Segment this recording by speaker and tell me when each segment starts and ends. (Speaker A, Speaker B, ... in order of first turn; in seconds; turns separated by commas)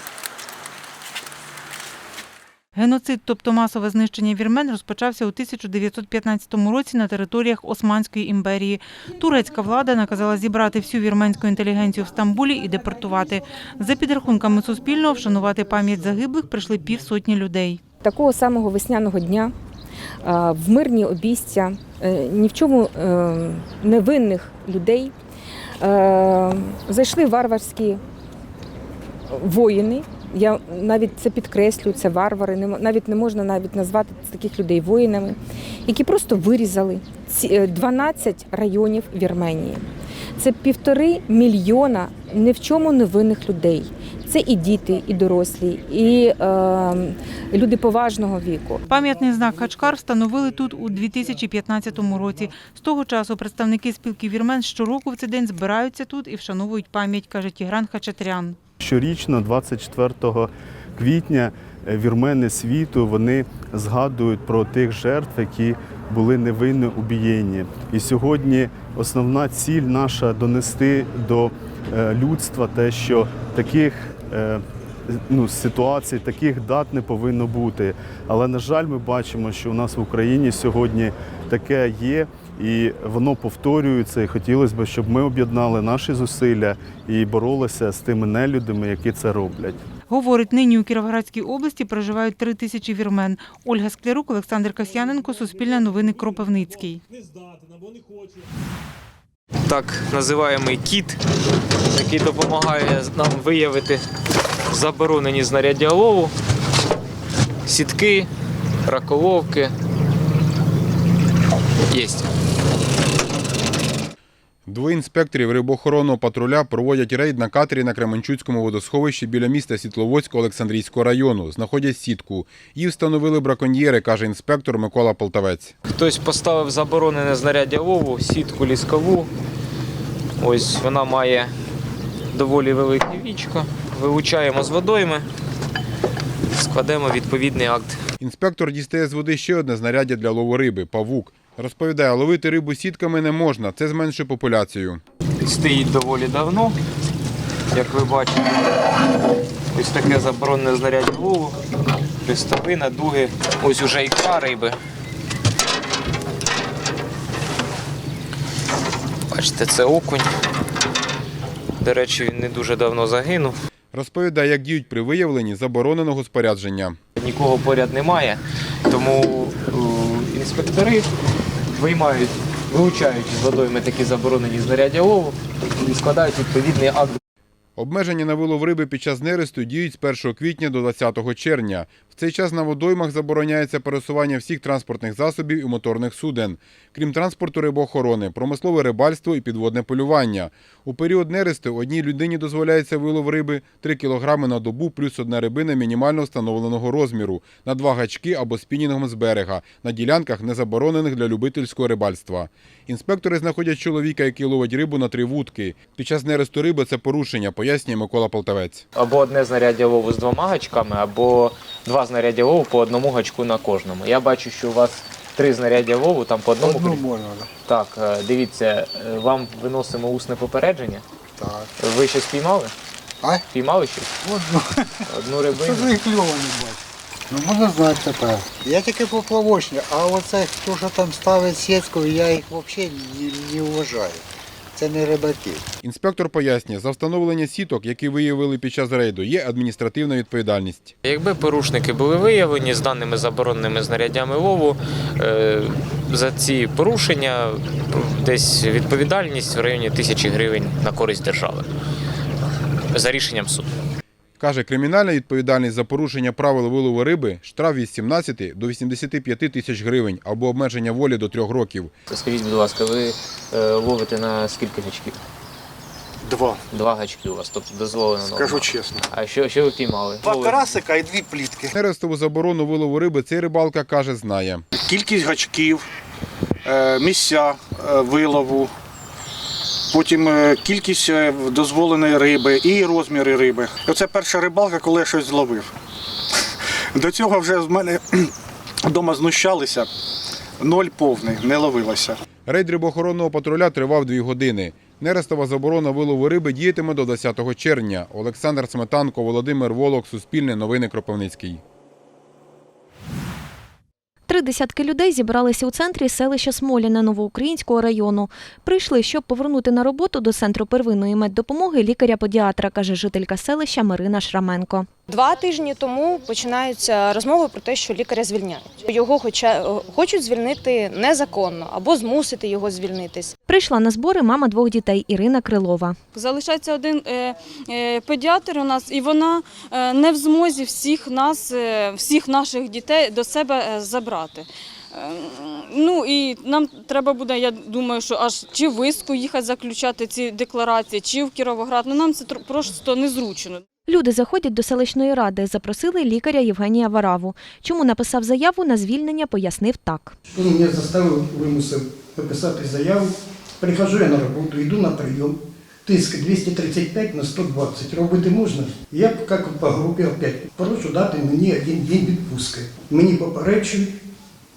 Speaker A: 2.7-17.8, Speaker B: 18.0-19.5, Speaker B: 20.2-25.1, Speaker B: 25.8-28.0, Speaker B: 29.3-39.8, Speaker B: 40.4-48.8, Speaker A: 48.9-58.6, Speaker C: 58.8-89.8, Speaker A: 90.1-97.0, Speaker D: 99.7-101.2, Speaker D: 101.9-104.0, Speaker D: 104.7-106.3, Speaker D: 107.7-108.3, Speaker D: 108.8-109.7, Speaker D: 111.9-112.2, Speaker E: 114.7-125.7, Speaker D: 125.9-129.3, Speaker D: 130.4-131.5, Speaker D: 132.3-135.2, Speaker D: 136.5-138.0, Speaker E: 138.2-145.0, Speaker D: 145.4-146.7, Speaker D: 147.7-148.5, Speaker D: 149.7-151.5, Speaker D: 152.2-154.8, Speaker D: 159.3-160.3, Speaker D: 161.8-163.5, Speaker E: 163.9-167.0, Speaker D: 167.2-171.1, Speaker D: 171.7-177.2, Speaker E: 177.8-208.8, Speaker D: 208.9-217.1, Speaker F: 216.7-217.2, Speaker D: 217.7-221.0, Speaker D: 221.8-222.7, Speaker D: 223.5-224.1, Speaker D: 225.1-226.0, Speaker F: 225.7-226.1, Speaker F: 227.3-234.2, Speaker F: 234.8-235.6, Speaker E: 235.8-240.9, Speaker D: 241.0-251.7, Speaker D: 252.9-253.7, Speaker E: 254.4-261.9, Speaker D: 262.1-265.1, Speaker G: 266.3-266.6, Speaker D: 266.7-270.8, Speaker G: 268.4-268.9, Speaker G: 270.4-270.7, Speaker E: 271.7-274.6, Speaker G: 274.9-275.8, Speaker G: 276.7-278.7, Speaker G: 279.9-285.7, Speaker G: 287.0-288.0, Speaker G: 288.9-289.9, Speaker G: 290.6-292.1, Speaker E: 292.4-301.6, Speaker H: 304.3-314.9, Speaker I: 315.1-323.3, Speaker H: 323.5-326.0, Speaker J: 326.1-343.6, Speaker H: 343.9-350.1, Speaker K: 350.3-363.9